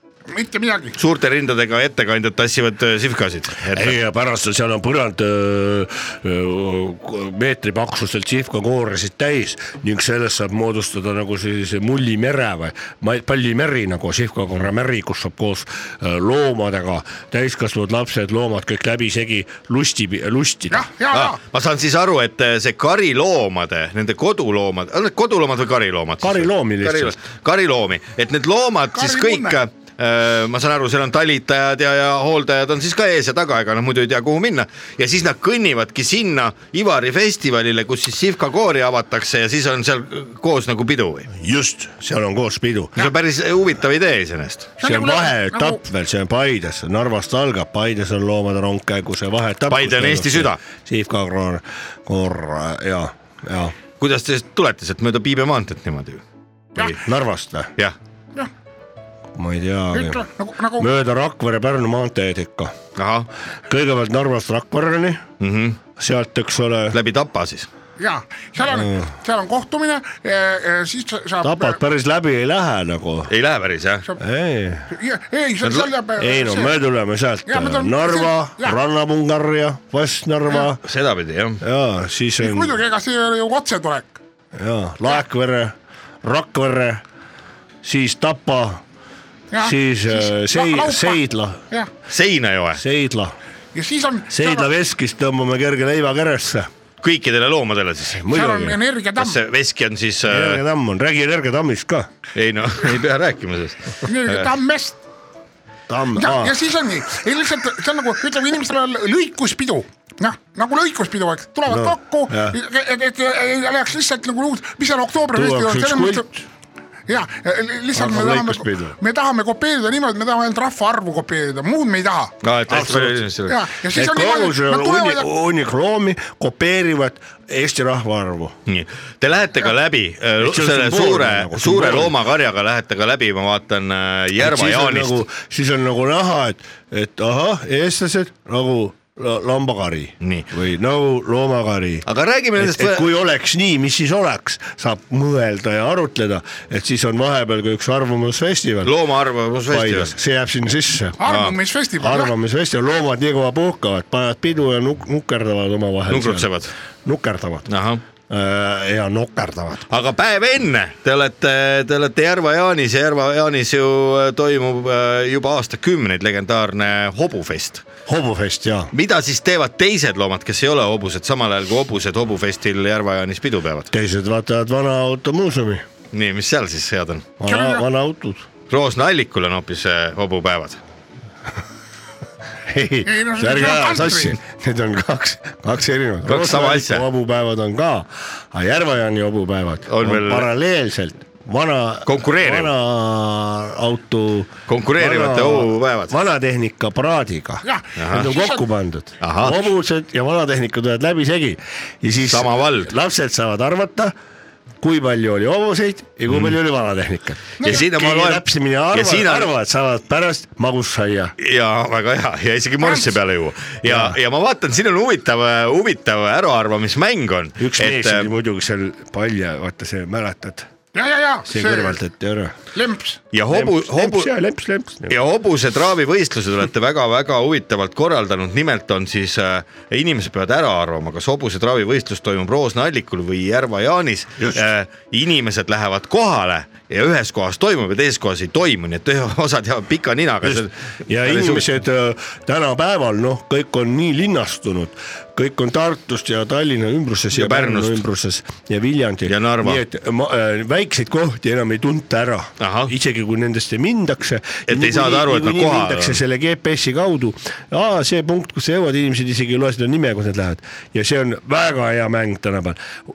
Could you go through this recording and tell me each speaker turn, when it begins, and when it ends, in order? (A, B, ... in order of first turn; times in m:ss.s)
0:00.3-0:01.0 A
0:01.0-0:04.0 B
0:03.7-0:20.8 C
0:20.7-0:21.4 A
0:21.1-0:41.3 B
0:26.2-0:27.2 C
0:28.9-0:29.6 A
0:41.4-0:43.0 C
0:42.9-0:44.7 B
0:44.8-0:45.8 A
0:44.8-0:53.7 C
0:49.7-0:50.6 B
0:54.0-0:56.2 B
0:56.8-0:57.7 C
0:59.3-1:00.2 C
0:59.9-1:00.9 A
1:00.8-1:02.7 C
1:02.9-1:03.3 B
1:03.7-1:05.2 C
1:05.4-1:05.8 B
1:06.0-1:07.0 C
1:06.9-1:07.7 B
1:08.0-1:11.8 A
1:08.7-1:09.1 C
1:11.4-1:13.3 C
1:13.3-1:14.1 B
1:14.2-1:14.9 C
1:14.9-1:16.8 A
1:15.6-1:15.9 B
1:16.2-1:20.8 C
1:17.4-1:18.8 A
1:20.8-1:21.6 B
1:21.6-1:22.7 C
1:22.4-1:24.2 A
1:24.6-1:27.0 C
1:27.8-1:28.8 C
1:29.5-1:31.9 A
1:29.6-1:31.6 C
1:32.1-1:32.8 B
1:32.8-1:33.4 C
1:33.7-1:34.7 A
1:34.3-1:36.7 C
1:37.0-1:38.2 B
1:38.1-1:38.8 C
1:38.3-1:39.4 A
1:39.2-1:40.6 B
1:40.2-1:42.1 C
1:42.3-1:44.5 B
1:44.0-1:45.0 A
1:45.9-1:46.6 C
1:46.2-1:56.3 A
1:51.7-1:52.6 C
1:55.3-1:56.4 C
1:57.1-2:02.3 A
1:57.9-1:59.0 C
2:02.4-2:03.6 B
2:02.7-2:03.3 C
2:03.5-2:05.3 A
2:03.9-2:08.5 C
2:08.7-2:15.2 B
2:10.4-2:12.1 C
2:14.4-2:22.0 C
2:20.2-2:20.5 B
2:22.0-2:23.1 B
2:22.6-2:28.9 C
2:28.8-2:30.1 B
2:29.7-2:31.2 C
2:31.2-2:32.3 A
2:31.2-2:31.6 B
2:32.0-2:36.5 C
2:36.1-2:36.7 B
2:37.0-2:37.7 C
2:37.7-2:38.0 B
2:38.3-2:39.9 C
2:39.9-2:47.8 B
2:48.0-2:48.9 C
2:48.9-2:53.9 B
2:53.9-2:55.8 C
2:56.1-2:57.4 B
2:57.4-2:58.4 C
2:57.4-2:57.8 A
2:58.7-3:00.8 B
3:02.7-3:24.1 C
3:03.0-3:04.4 A
3:06.2-3:07.0 B
3:09.9-3:10.5 B
3:12.0-3:12.7 B
3:14.7-3:16.1 B
3:17.6-3:18.6 A
3:18.0-3:18.3 B
3:19.2-3:19.7 B
3:22.3-3:22.9 B
3:24.8-3:31.3 C
3:26.3-3:26.6 B
3:27.6-3:29.5 B
3:31.4-3:38.3 B
3:32.8-3:33.1 A
3:33.8-3:34.2 C
3:37.6-3:40.7 C
3:40.9-3:42.0 A
3:41.5-3:42.6 C
3:42.7-3:43.2 A
3:43.3-3:44.3 B
3:43.5-3:45.1 C
3:45.1-4:01.7 B
4:00.4-4:22.8 C
4:07.3-4:08.0 B
4:09.2-4:09.8 B
4:12.6-4:12.9 B
4:14.7-4:16.2 B